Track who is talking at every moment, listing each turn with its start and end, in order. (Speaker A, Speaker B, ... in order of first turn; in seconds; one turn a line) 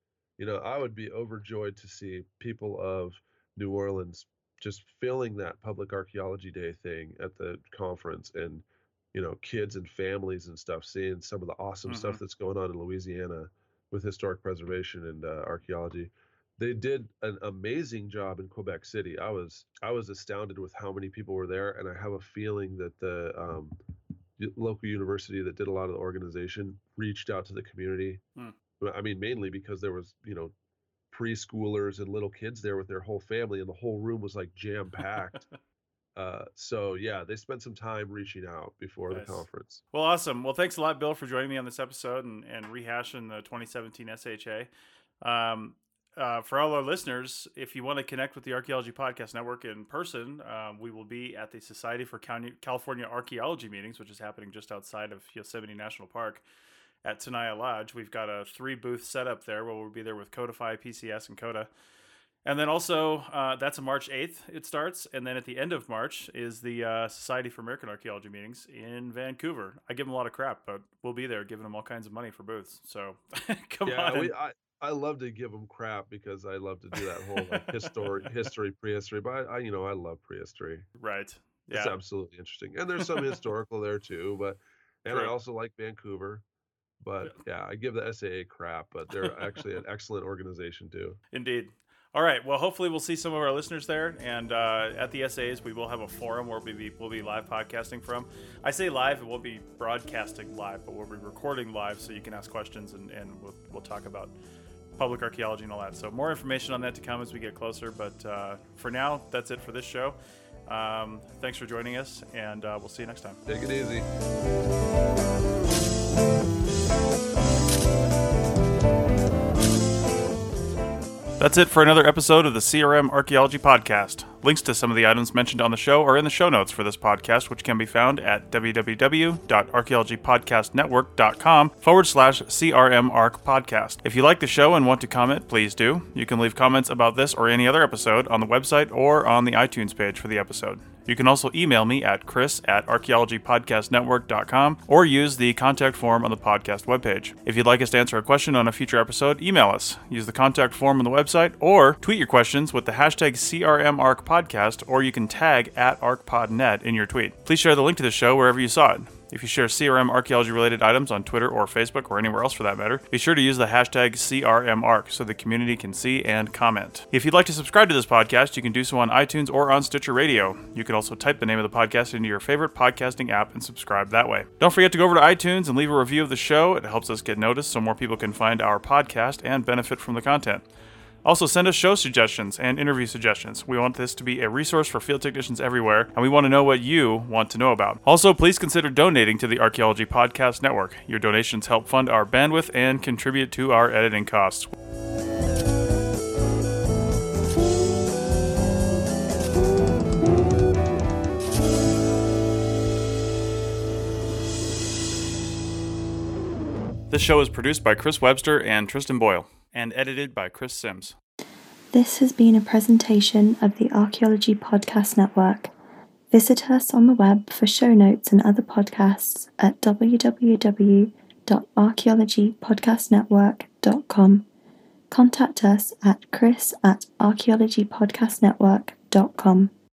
Speaker A: 0.4-23.8
Speaker B: 11.9-12.2
Speaker A: 24.4-28.2
Speaker A: 28.8-30.5
Speaker A: 31.1-35.5
Speaker A: 36.2-39.8
Speaker B: 39.1-44.7
Speaker B: 45.2-56.4
Speaker B: 57.0-61.7
Speaker B: 62.5-74.3
Speaker A: 73.9-80.9
Speaker B: 77.3-78.3
Speaker B: 81.0-82.0
Speaker A: 81.7-86.5
Speaker B: 83.0-83.3
Speaker B: 85.1-85.3
Speaker A: 87.0-91.2
Speaker B: 91.3-104.3
Speaker B: 105.0-113.4
Speaker A: 113.5-114.1
Speaker B: 121.4-180.7
Speaker B: 181.2-194.7
Speaker B: 207.1-211.2
Speaker C: 211.9-215.7
Speaker C: 216.3-224.5
Speaker C: 225.1-229.7